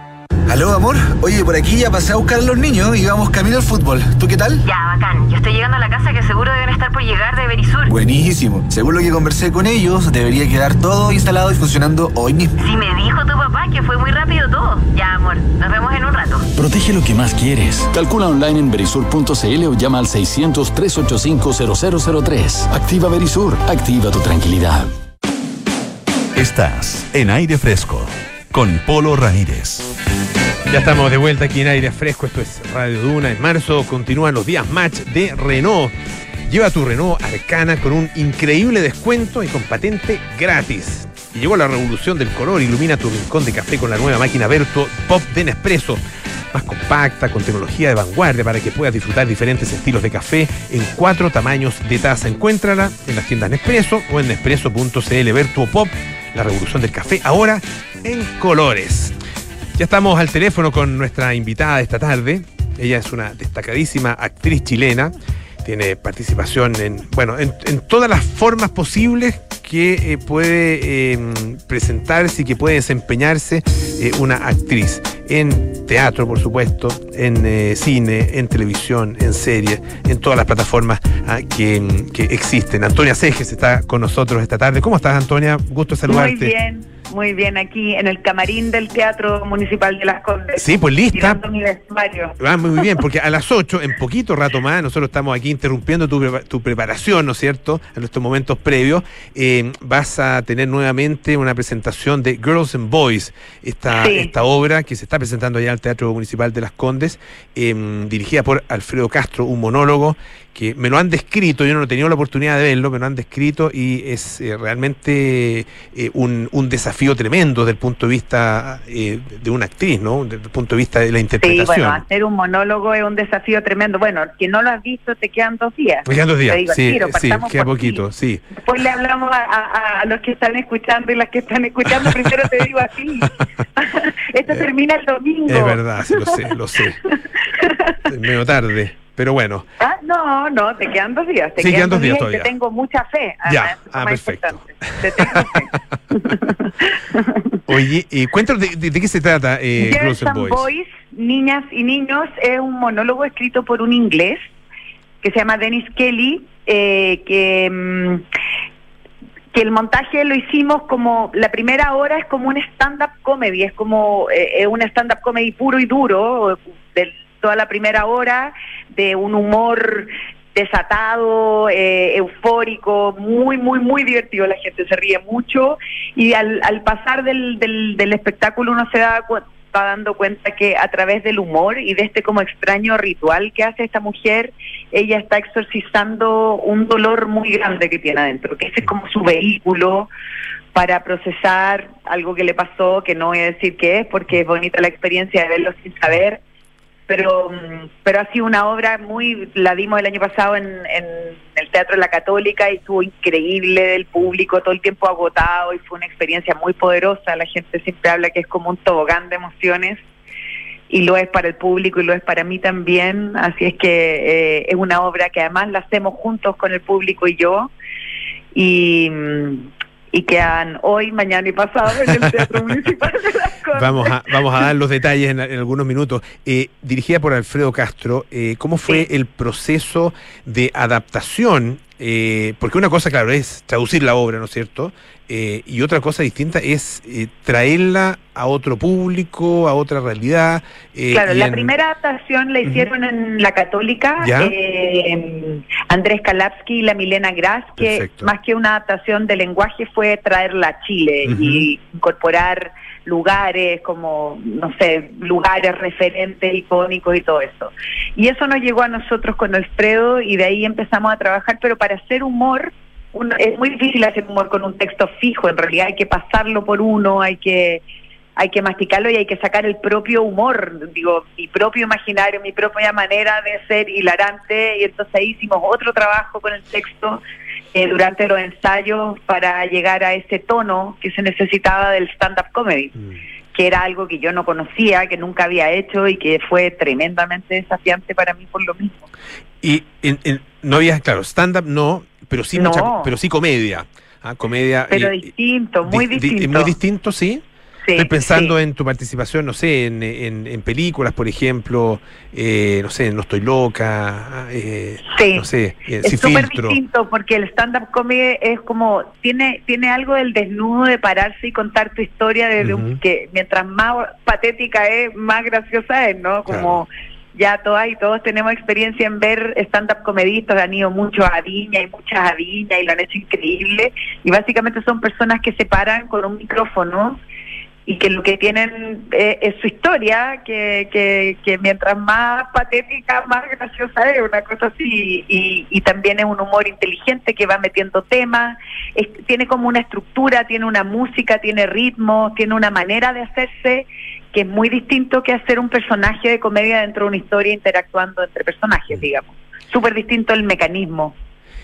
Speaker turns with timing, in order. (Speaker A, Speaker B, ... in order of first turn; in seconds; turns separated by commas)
Speaker A: 0.5-4.6, Speaker B: 4.6-7.9, Speaker A: 7.9-12.5, Speaker B: 12.6-16.4, Speaker C: 16.6-24.9, Speaker D: 26.3-29.9, Speaker E: 30.7-35.9, Speaker E: 36.5-46.0, Speaker E: 46.5-59.1, Speaker E: 59.8-65.1, Speaker E: 65.6-86.5, Speaker F: 86.1-92.9, Speaker E: 90.6-91.4, Speaker E: 92.4-122.0, Speaker F: 103.9-104.3, Speaker F: 121.4-128.0, Speaker E: 126.0-128.5, Speaker F: 128.6-136.5, Speaker E: 132.0-132.4, Speaker E: 135.5-137.0, Speaker F: 137.0-138.0, Speaker E: 138.1-139.7, Speaker F: 139.8-147.5, Speaker E: 141.6-142.5, Speaker E: 143.4-146.3, Speaker E: 147.7-150.7, Speaker F: 149.8-154.4, Speaker F: 155.2-158.2, Speaker F: 159.5-190.1, Speaker F: 190.7-196.4, Speaker F: 197.1-210.0, Speaker F: 210.9-217.7, Speaker F: 218.5-224.2, Speaker E: 223.7-241.7, Speaker F: 241.1-267.8, Speaker E: 244.2-244.5, Speaker E: 247.8-248.3, Speaker E: 251.2-251.6, Speaker F: 268.4-277.2, Speaker F: 277.7-282.9, Speaker F: 283.5-289.0, Speaker E: 289.6-295.2, Speaker F: 292.6-293.1, Speaker F: 294.9-296.7, Speaker E: 295.8-297.4, Speaker F: 297.8-298.5, Speaker E: 297.9-306.8, Speaker F: 305.1-305.4, Speaker F: 306.0-327.2, Speaker E: 312.6-313.0, Speaker E: 316.5-316.8, Speaker F: 327.9-351.1